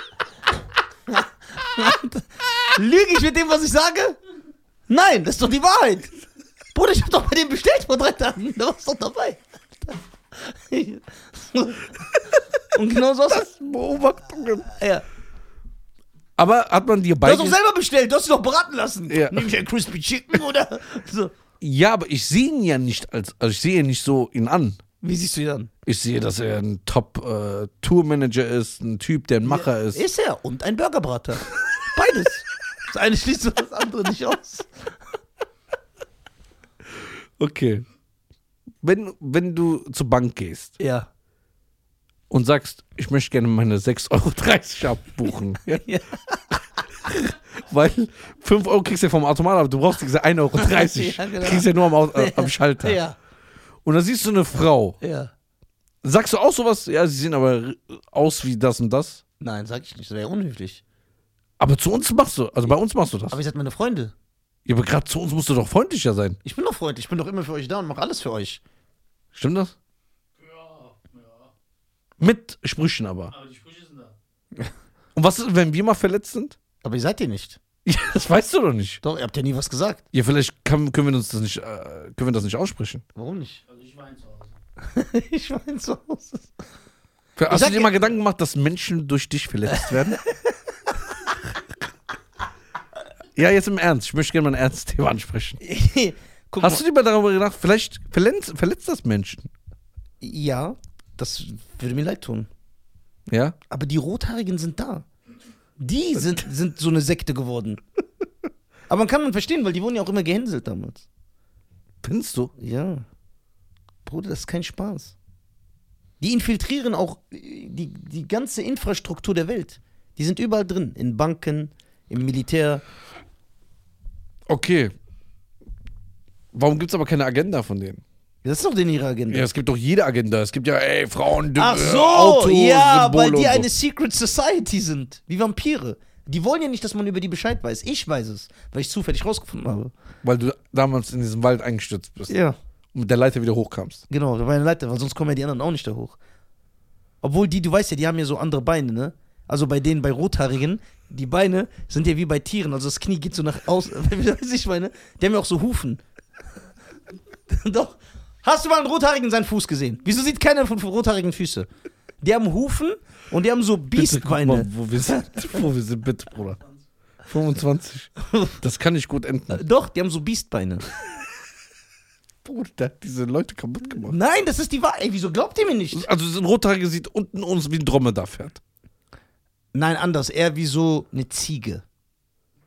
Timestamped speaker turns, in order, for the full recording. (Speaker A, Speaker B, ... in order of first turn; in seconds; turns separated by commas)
Speaker A: 1.1-4.2, Speaker A: 4.9-6.1, Speaker A: 6.7-12.1, Speaker A: 12.7-13.5, Speaker B: 13.3-14.7, Speaker A: 14.7-15.1, Speaker B: 16.4-17.6, Speaker A: 17.2-21.3, Speaker B: 19.1-19.5, Speaker B: 21.6-24.8, Speaker A: 25.0-25.7, Speaker B: 25.9-30.0, Speaker A: 29.5-34.7, Speaker B: 37.0-37.9, Speaker B: 38.8-40.8, Speaker A: 40.8-41.1, Speaker B: 42.3-45.8, Speaker A: 45.8-46.4, Speaker B: 47.0-53.0, Speaker A: 50.6-53.2, Speaker B: 53.9-55.0, Speaker A: 55.0-55.3, Speaker B: 56.0-59.2, Speaker A: 59.4-60.8, Speaker B: 61.6-63.4, Speaker A: 63.3-64.1, Speaker B: 64.7-66.4, Speaker A: 66.5-68.6, Speaker B: 69.3-69.7, Speaker C: 70.4-71.5, Speaker B: 72.2-73.3, Speaker C: 73.3-74.2, Speaker B: 75.2-76.6, Speaker A: 76.8-77.6, Speaker B: 77.8-79.0, Speaker A: 79.0-80.0, Speaker B: 80.1-83.0, Speaker A: 83.2-83.6, Speaker C: 83.7-84.6, Speaker A: 84.8-86.5, Speaker B: 87.4-90.2, Speaker A: 87.5-88.1, Speaker A: 89.7-90.3, Speaker B: 93.3-95.6, Speaker A: 95.6-96.8, Speaker B: 96.6-99.5, Speaker A: 100.2-102.5, Speaker B: 103.3-103.6, Speaker A: 103.7-105.1, Speaker A: 105.8-107.8, Speaker A: 108.9-111.1, Speaker B: 112.0-112.5, Speaker A: 112.6-113.0, Speaker A: 114.0-115.2, Speaker A: 116.2-122.8, Speaker B: 124.5-124.9, Speaker B: 126.5-128.0, Speaker A: 128.4-129.5, Speaker B: 129.3-133.7, Speaker A: 131.6-139.9, Speaker B: 140.2-142.3, Speaker A: 142.3-142.6, Speaker B: 142.9-144.0, Speaker A: 144.1-146.2, Speaker A: 147.2-156.0, Speaker A: 157.5-161.7, Speaker A: 162.2-165.6, Speaker B: 163.9-166.6, Speaker B: 167.3-169.6, Speaker A: 168.2-168.6, Speaker A: 169.5-170.9, Speaker B: 172.4-174.2, Speaker A: 174.1-176.1, Speaker B: 175.9-178.6, Speaker A: 179.7-181.8